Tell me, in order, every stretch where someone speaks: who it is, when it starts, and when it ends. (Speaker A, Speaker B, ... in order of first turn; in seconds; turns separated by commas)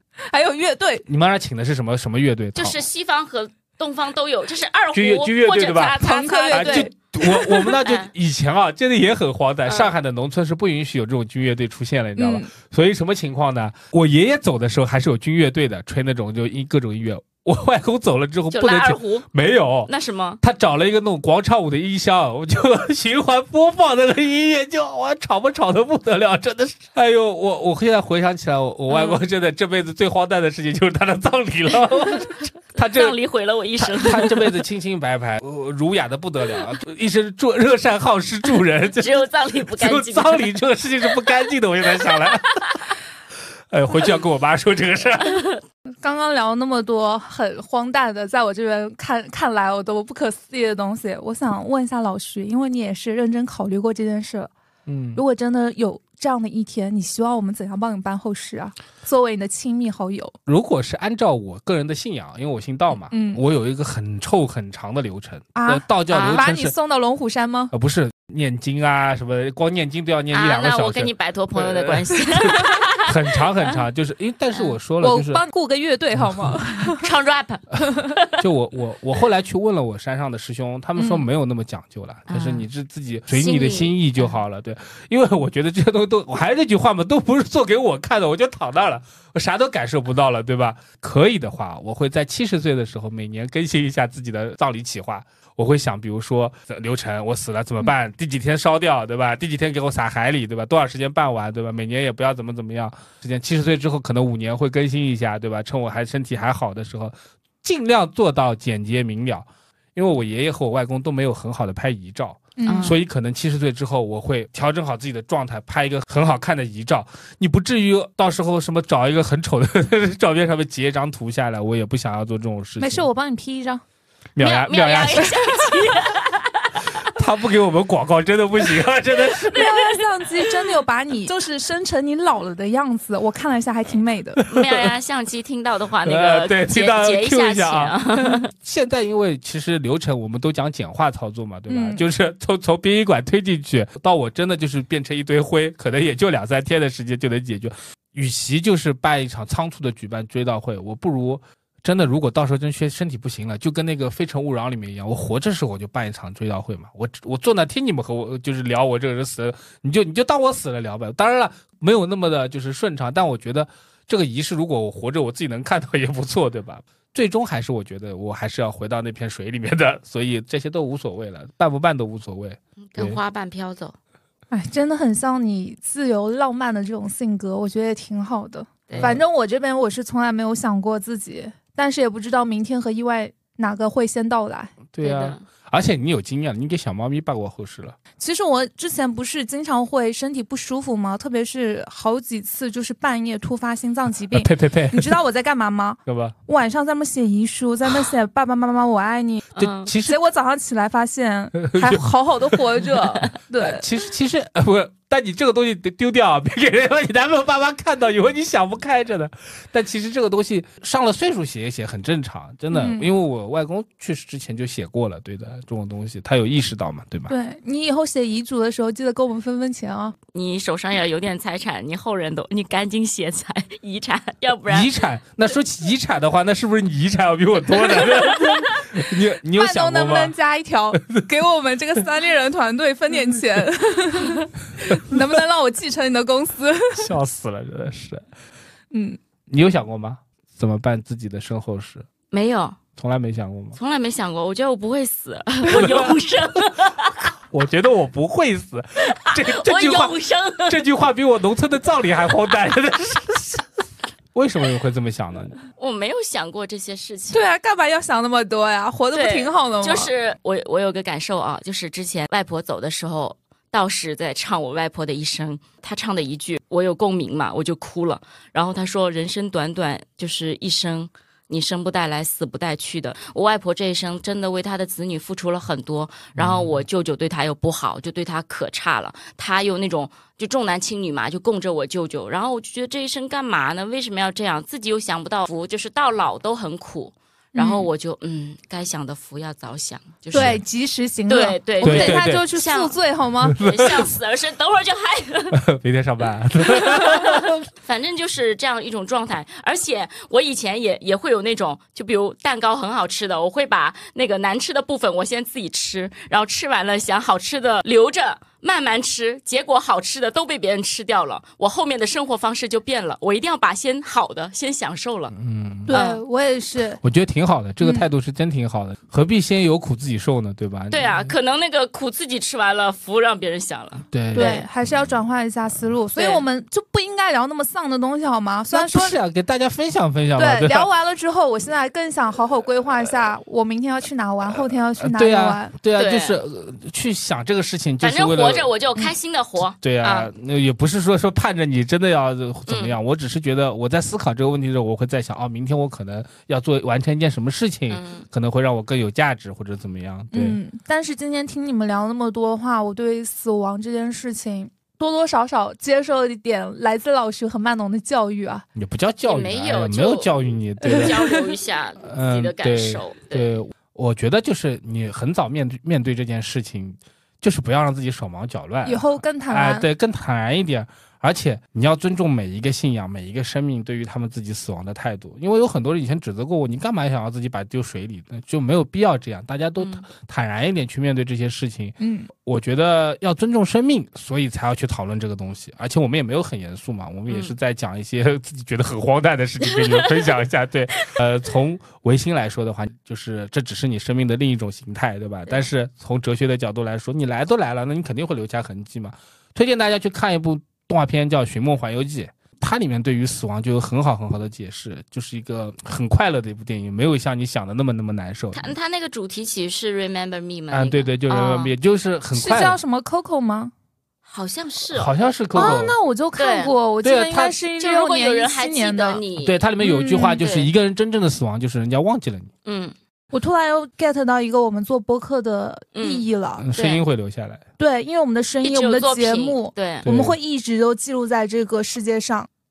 Speaker A: 0.3-1.1, Speaker B: 1.1-2.8, Speaker C: 2.5-8.1, Speaker B: 4.9-33.2, Speaker A: 6.0-6.9, Speaker C: 9.7-9.9, Speaker A: 12.2-12.5, Speaker C: 18.5-19.3, Speaker C: 19.9-20.4, Speaker C: 28.9-29.2, Speaker C: 32.9-34.4, Speaker B: 33.8-42.6, Speaker C: 38.9-40.5, Speaker C: 42.1-42.8, Speaker B: 43.7-45.4, Speaker C: 45.2-45.6, Speaker A: 46.0-54.5, Speaker B: 54.9-55.2, Speaker A: 55.1-60.4, Speaker B: 60.5-66.8, Speaker A: 63.1-63.4, Speaker A: 65.5-67.7, Speaker C: 66.1-66.4, Speaker B: 67.7-75.4, Speaker C: 70.3-73.1, Speaker A: 75.0-77.1, Speaker B: 76.2-76.6, Speaker C: 76.9-78.4, Speaker B: 78.4-123.1, Speaker C: 81.0-81.2, Speaker C: 82.3-82.7, Speaker C: 83.3-84.4, Speaker A: 112.6-113.0, Speaker C: 112.6-113.0, Speaker A: 122.8-123.8, Speaker B: 124.4-125.4, Speaker C: 124.4-126.7, Speaker B: 127.1-129.8, Speaker A: 129.5-134.4, Speaker B: 134.4-134.9, Speaker C: 134.5-138.5, Speaker B: 136.1-173.2, Speaker A: 141.7-142.0, Speaker C: 172.8-173.9, Speaker A: 174.5-184.8, Speaker C: 178.9-179.1, Speaker B: 184.9-188.0, Speaker C: 185.0-185.4, Speaker A: 188.2-203.8, Speaker B: 194.3-195.1, Speaker B: 196.1-196.4, Speaker C: 199.6-199.9, Speaker B: 199.6-200.2, Speaker B: 201.6-202.6, Speaker B: 203.6-217.3, Speaker A: 212.7-213.1, Speaker A: 217.3-220.2, Speaker C: 220.3-224.9, Speaker B: 224.7-230.3, Speaker A: 229.5-237.1, Speaker B: 236.9-238.2, Speaker A: 238.9-239.2, Speaker B: 239.5-242.1, Speaker C: 242.3-242.8, Speaker B: 243.0-243.8, Speaker C: 243.8-247.2, Speaker B: 245.7-246.2, Speaker B: 247.5-250.1, Speaker C: 249.1-250.8, Speaker B: 250.7-253.8, Speaker B: 254.3-255.6, Speaker C: 255.8-257.4, Speaker A: 257.3-260.1, Speaker C: 259.1-290.6, Speaker B: 276.4-276.8, Speaker A: 287.6-287.9, Speaker B: 290.3-290.6, Speaker A: 290.3-293.6, Speaker C: 291.3-293.0, Speaker B: 291.8-292.4, Speaker B: 293.4-294.1, Speaker C: 293.6-295.6, Speaker B: 295.5-297.6, Speaker C: 296.6-315.3, Speaker B: 315.3-315.9, Speaker A: 315.9-317.0, Speaker C: 315.9-316.2, Speaker B: 317.0-321.3, Speaker C: 320.9-324.6, Speaker B: 324.1-324.6, Speaker A: 324.3-329.2, Speaker C: 326.1-326.4, Speaker B: 328.7-330.9, Speaker A: 330.4-335.7, Speaker B: 334.5-338.7, Speaker C: 336.0-336.4, Speaker C: 338.0-340.3, Speaker B: 339.8-350.6, Speaker C: 342.7-343.0, Speaker C: 347.9-348.2, Speaker A: 350.3-358.6, Speaker B: 358.8-361.3, Speaker C: 359.3-360.3, Speaker C: 360.9-363.5, Speaker B: 362.0-408.7, Speaker A: 368.8-369.9, Speaker C: 379.8-380.1, Speaker A: 382.0-382.3, Speaker C: 387.3-387.5, Speaker C: 389.7-390.2, Speaker C: 408.5-411.7, Speaker B: 410.7-412.8, Speaker A: 412.3-413.7, Speaker C: 414.3-415.9, Speaker B: 414.9-415.9, Speaker A: 415.6-419.2, Speaker C: 416.4-416.8, Speaker B: 417.0-417.6, Speaker C: 417.8-420.7, Speaker B: 419.4-422.5, Speaker A: 419.8-420.4, Speaker C: 422.6-422.9, Speaker A: 423.3-426.6, Speaker C: 425.9-427.0, Speaker B: 426.6-427.6, Speaker A: 427.8-432.5, Speaker C: 428.6-430.1, Speaker B: 430.1-430.4